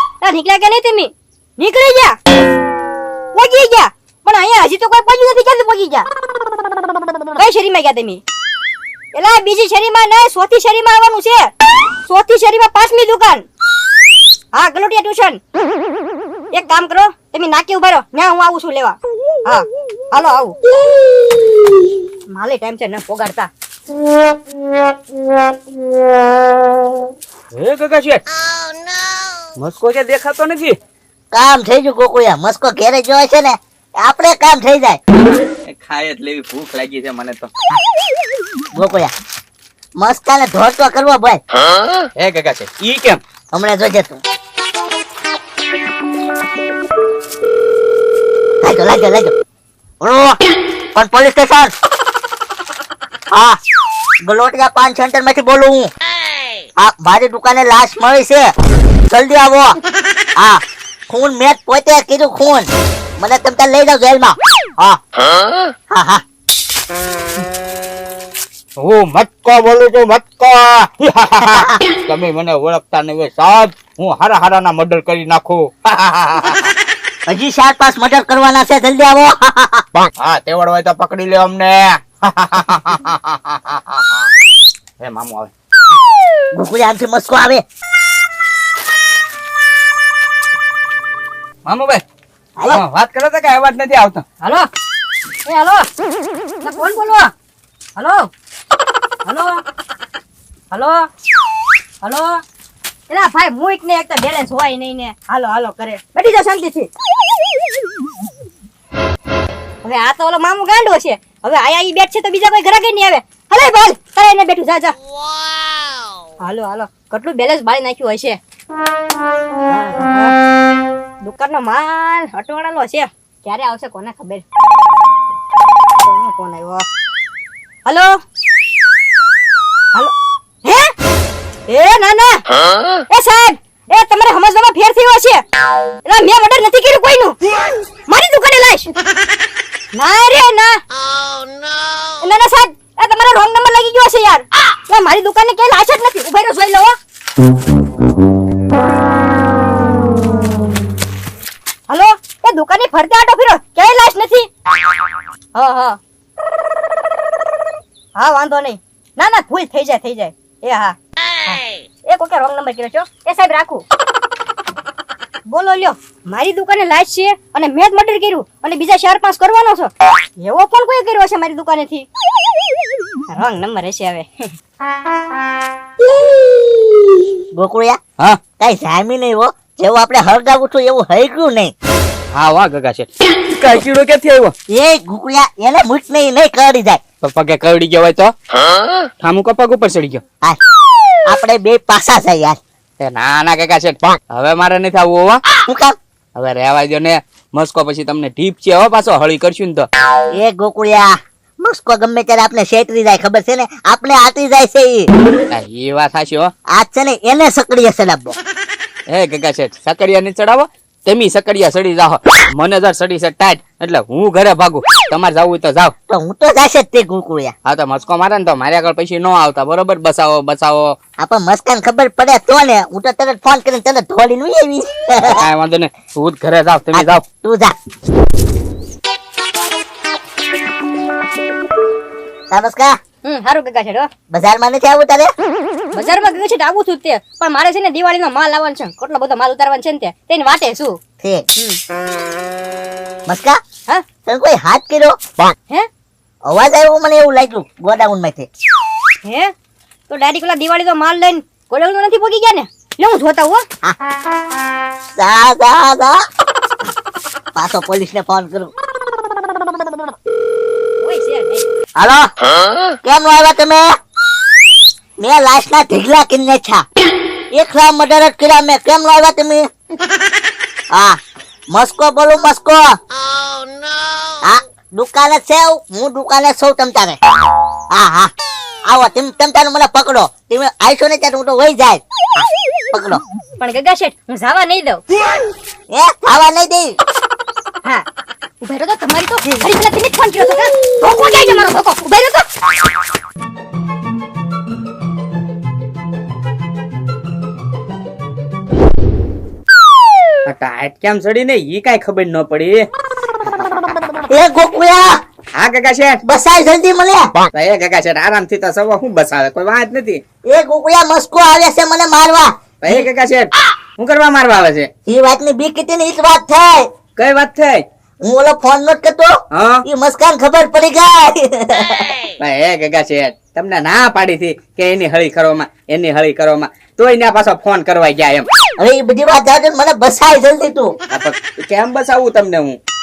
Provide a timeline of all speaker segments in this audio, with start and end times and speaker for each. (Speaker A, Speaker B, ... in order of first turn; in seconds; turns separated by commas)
Speaker A: 0.2-2.2, Speaker A: 3.3-6.1, Speaker A: 7.4-8.2, Speaker A: 9.1-11.5, Speaker A: 12.1-13.5, Speaker A: 14.5-15.4, Speaker A: 16.5-20.6, Speaker A: 22.3-23.5, Speaker B: 27.5-28.2, Speaker B: 29.6-30.8, Speaker C: 31.3-35.0, Speaker B: 35.3-37.5, Speaker C: 38.7-39.1, Speaker C: 40.0-41.4, Speaker B: 42.2-43.2, Speaker C: 43.5-44.2, Speaker C: 48.6-49.3, Speaker C: 50.0-50.4, Speaker C: 51.0-51.7, Speaker C: 53.3-53.6, Speaker C: 54.2-55.9, Speaker C: 56.8-58.5, Speaker C: 59.1-59.8, Speaker C: 60.4-62.7, Speaker C: 63.2-65.0, Speaker C: 65.9-66.2, Speaker B: 68.8-76.7, Speaker C: 77.3-79.9, Speaker B: 80.2-84.2, Speaker B: 85.0-85.5, Speaker C: 86.5-87.6, Speaker B: 91.7-92.0, Speaker B: 92.7-94.2, Speaker A: 94.4-94.7, Speaker A: 95.5-95.9, Speaker A: 96.6-97.3, Speaker A: 98.0-98.3, Speaker A: 99.2-99.6, Speaker A: 100.7-101.1, Speaker A: 102.0-102.4, Speaker A: 103.1-106.9, Speaker A: 109.8-115.0, Speaker A: 116.4-118.4, Speaker A: 119.7-120.3, Speaker A: 121.2-124.4, Speaker A: 126.0-126.8, Speaker A: 127.8-128.2, Speaker A: 130.6-130.9, Speaker A: 131.7-132.4, Speaker A: 133.1-135.4, Speaker A: 136.1-137.4, Speaker A: 138.1-138.9, Speaker A: 139.9-140.8, Speaker A: 142.2-146.9, Speaker A: 151.9-154.5, Speaker A: 155.6-156.0, Speaker A: 158.2-163.8, Speaker A: 165.5-172.1, Speaker A: 173.3-174.5, Speaker C: 177.5-178.0, Speaker C: 178.6-181.7, Speaker B: 182.3-184.5, Speaker C: 184.7-187.0, Speaker B: 187.2-188.3, Speaker B: 189.2-190.2, Speaker C: 191.3-192.6, Speaker B: 193.0-195.4, Speaker C: 195.7-195.9, Speaker B: 196.4-199.9, Speaker C: 200.4-201.1, Speaker C: 201.6-205.1, Speaker B: 205.5-206.5, Speaker C: 206.7-208.3, Speaker B: 209.1-215.9, Speaker C: 216.1-217.5, Speaker B: 217.7-220.9, Speaker C: 221.2-225.4, Speaker B: 225.2-227.2, Speaker C: 226.9-227.7, Speaker C: 232.5-232.9, Speaker A: 233.2-234.1, Speaker C: 234.3-235.3, Speaker A: 235.9-241.0, Speaker C: 243.3-243.6, Speaker C: 244.3-245.2, Speaker C: 246.5-248.5, Speaker A: 249.2-249.5, Speaker A: 250.1-253.6, Speaker C: 255.2-256.2, Speaker C: 257.6-258.7, Speaker A: 261.0-261.7, Speaker C: 262.0-262.3, Speaker C: 263.0-263.8, Speaker C: 265.2-266.8, Speaker C: 267.5-269.6, Speaker C: 271.7-272.9, Speaker C: 274.5-277.2, Speaker C: 277.9-278.3, Speaker C: 278.9-283.2, Speaker A: 283.6-285.0, Speaker C: 285.9-286.9, Speaker A: 288.6-292.5, Speaker B: 300.5-302.9, Speaker B: 303.5-303.9, Speaker C: 304.3-305.2, Speaker B: 305.6-306.2, Speaker C: 306.2-307.3, Speaker B: 307.5-310.2, Speaker C: 310.5-313.1, Speaker B: 312.8-314.9, Speaker C: 315.1-316.9, Speaker B: 317.2-317.8, Speaker C: 318.2-319.3, Speaker B: 319.5-319.9, Speaker C: 319.9-322.1, Speaker B: 322.4-328.5, Speaker C: 328.8-330.9, Speaker B: 331.1-332.8